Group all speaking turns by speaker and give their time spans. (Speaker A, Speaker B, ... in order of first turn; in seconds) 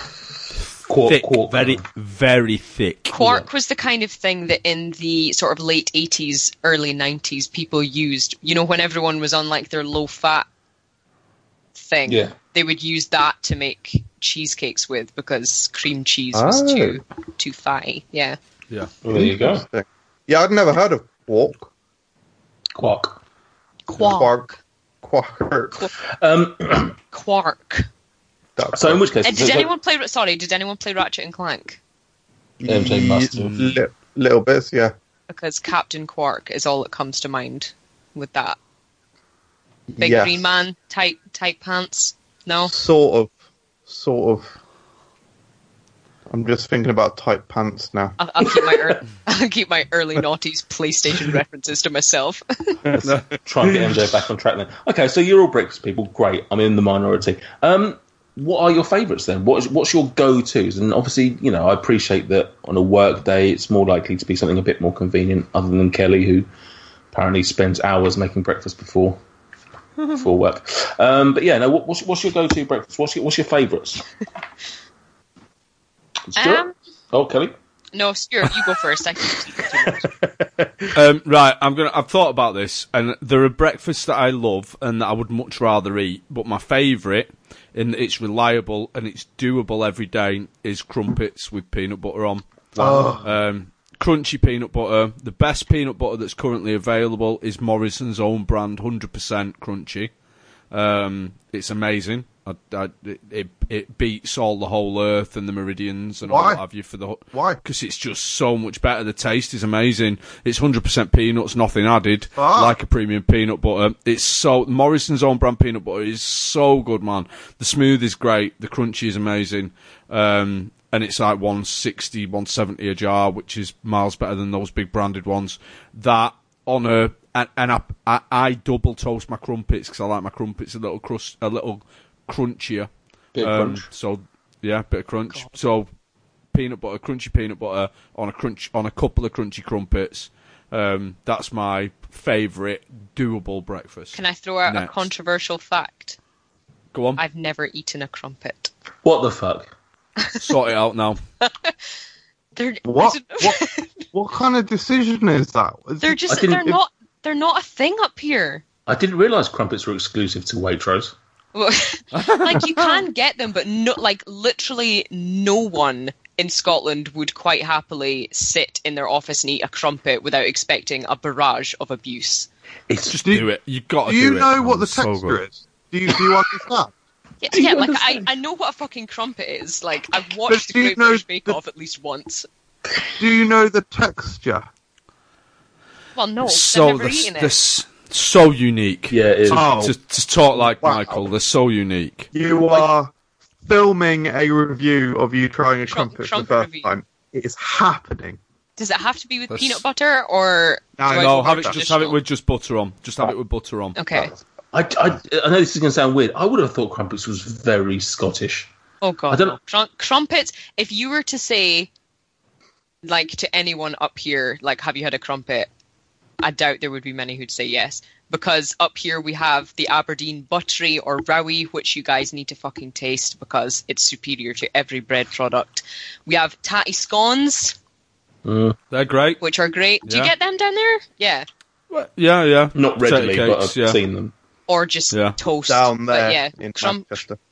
Speaker A: 0.8-1.8, 12.1-12.3, 19.0-19.6, 22.8-23.2, 26.2-27.0, 28.7-29.7, 32.6-33.6, 53.0-66.5, 67.1-69.2, 70.1-74.0, 76.3-77.5, 133.3-133.8, 149.0-149.7, 156.3-156.8, 158.8-161.1, 172.9-173.2, 177.5-178.3, 189.1-189.7, 204.7-208.7, 209.3-209.6, 228.4-228.8, 232.7-234.3
Speaker B: 1.0-3.2, 33.3-33.8, 80.9-100.1, 100.7-135.9, 136.5-145.0, 146.9-147.2, 150.4-151.2, 162.1-162.9, 173.1-175.4, 186.4-192.3, 199.5-199.8, 201.1-204.0, 228.9-229.4, 230.1-230.3, 231.9-234.0, 235.1-235.3
Speaker C: 3.1-10.4, 11.7-18.4, 23.9-24.5, 27.1-27.9, 29.2-31.8, 35.3-38.6, 40.0-42.7, 48.2-52.9, 76.3-76.7, 77.9-80.0, 135.3-135.6, 144.1-146.2, 147.2-148.7, 151.4-151.8, 152.5-154.0, 156.0-158.6, 161.5-172.5, 177.4-182.5, 186.1-187.5, 195.9-196.9, 198.8-202.2, 203.9-204.3, 209.0-211.9, 213.0-215.7, 216.4-227.8, 229.4-231.4, 234.7-237.2
Speaker D: 16.3-17.0, 19.1-21.7, 24.0-25.9, 28.6-29.1, 32.6-34.9, 39.9-40.5, 42.7-43.3, 43.9-44.5, 46.3-48.2, 52.8-54.0, 92.8-93.3, 106.2-106.6, 107.3-107.6, 112.4-112.8, 152.8-156.2, 174.0-176.9, 180.5-181.6, 183.2-184.7, 189.5-189.9, 190.5-191.2, 192.3-193.1, 193.6-198.4, 201.0-201.8, 235.7-237.4